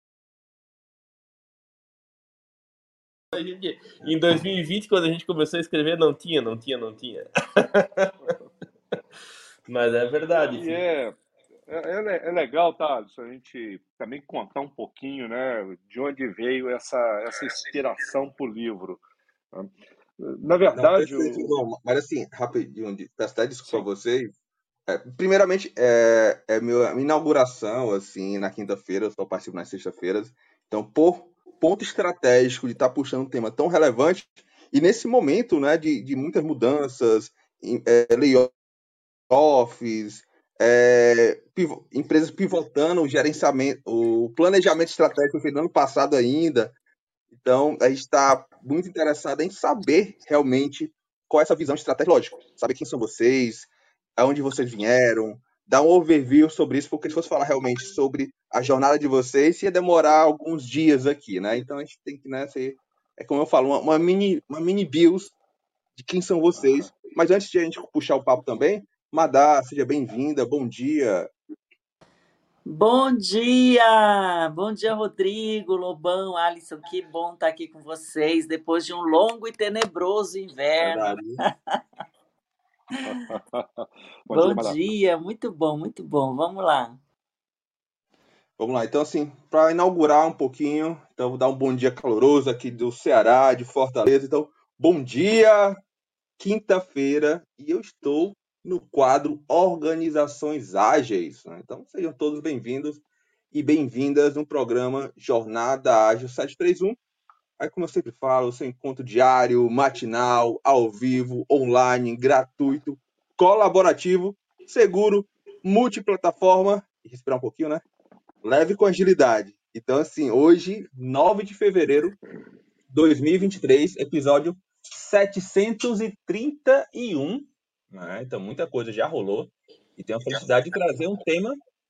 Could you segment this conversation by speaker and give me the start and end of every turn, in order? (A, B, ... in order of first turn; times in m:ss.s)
0:03.3-0:08.3 A
0:09.7-0:10.8 A
0:10.4-0:11.2 B
0:11.7-0:19.0 B
0:19.5-0:21.5 B
0:20.7-0:24.3 C
0:24.9-0:38.5 C
0:39.3-0:46.7 C
0:47.3-1:05.4 C
1:06.0-1:11.3 C
1:12.7-1:21.2 D
1:20.8-1:21.4 C
1:23.1-1:24.8 B
1:24.3-1:27.0 D
1:28.6-1:35.8 C
1:36.4-1:47.0 C
1:47.6-1:57.8 C
1:58.4-2:02.2 C
2:02.9-2:11.6 C